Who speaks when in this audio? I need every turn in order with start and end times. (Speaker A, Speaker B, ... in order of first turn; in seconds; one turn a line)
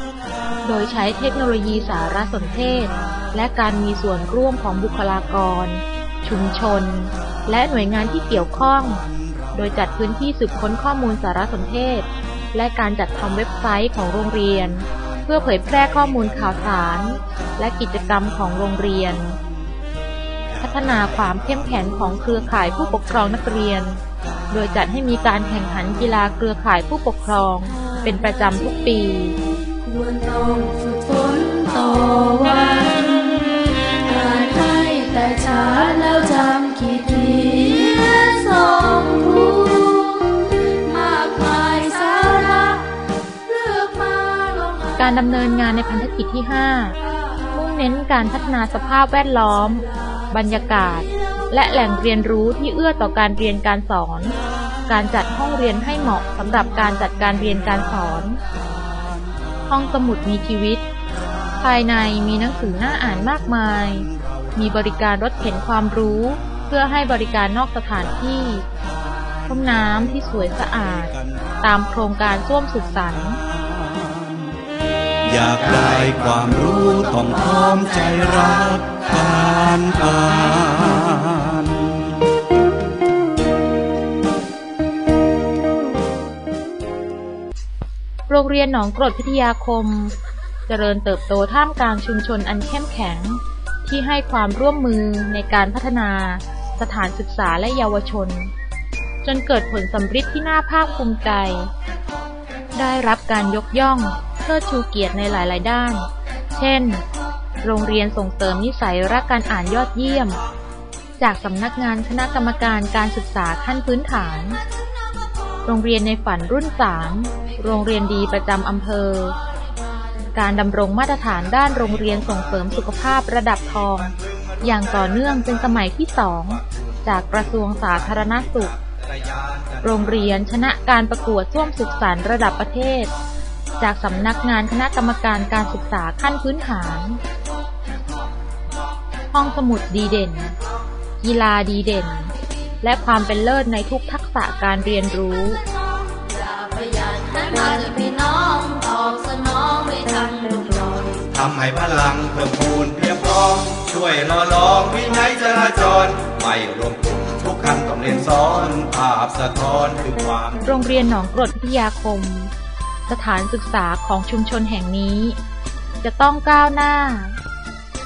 Speaker A: 0.6-19.4
Speaker A: 20.6-29.4
Speaker B: 29.8-45.0
Speaker A: 45.0-47.0
Speaker A: 47.5-54.4
Speaker A: 54.9-58.4
Speaker A: 59.7-60.9
Speaker A: 61.6-68.7
Speaker A: 69.5-73.4
Speaker C: 73.6-74.5
Speaker C: 75.2-82.1
Speaker A: 88.3-90.2
Speaker A: 90.7-98.5
Speaker A: 99.2-101.7
Speaker A: 102.8-107.0
Speaker A: 107.6-110.4
Speaker A: 111.2-114.6
Speaker A: 115.7-119.4
Speaker A: 120.3-128.8
Speaker A: 129.8-133.1
Speaker A: 133.8-137.2
Speaker A: 139.3-140.6
Speaker A: 141.2-145.6
Speaker B: 146.1-151.3
Speaker C: 151.3-160.6
Speaker A: 160.6-162.5
Speaker A: 163.1-165.4
Speaker A: 166.0-167.4